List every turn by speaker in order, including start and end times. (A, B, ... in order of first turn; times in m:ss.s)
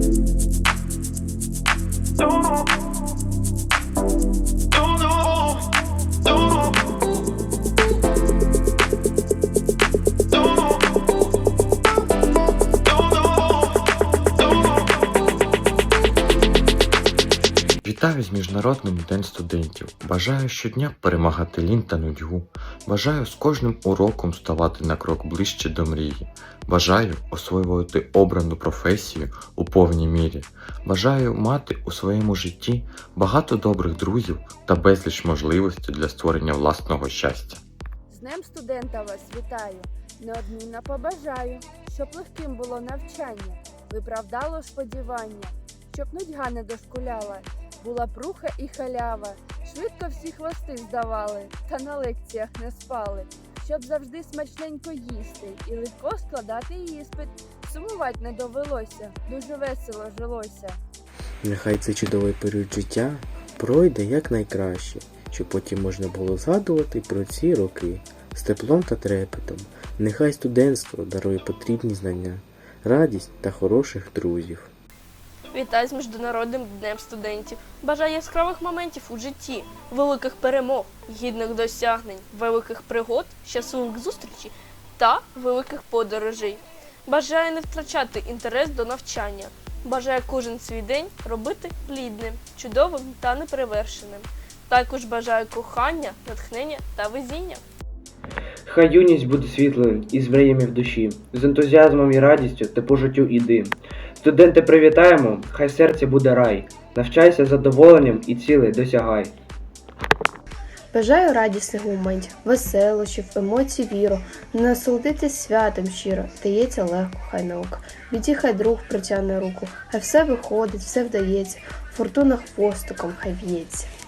0:17.8-0:37.6 A
0:38.1-1:00.8 B
1:01.4-1:14.7 C
1:15.5-1:37.6 D
1:38.6-1:49.3 E
1:50.9-2:03.9 F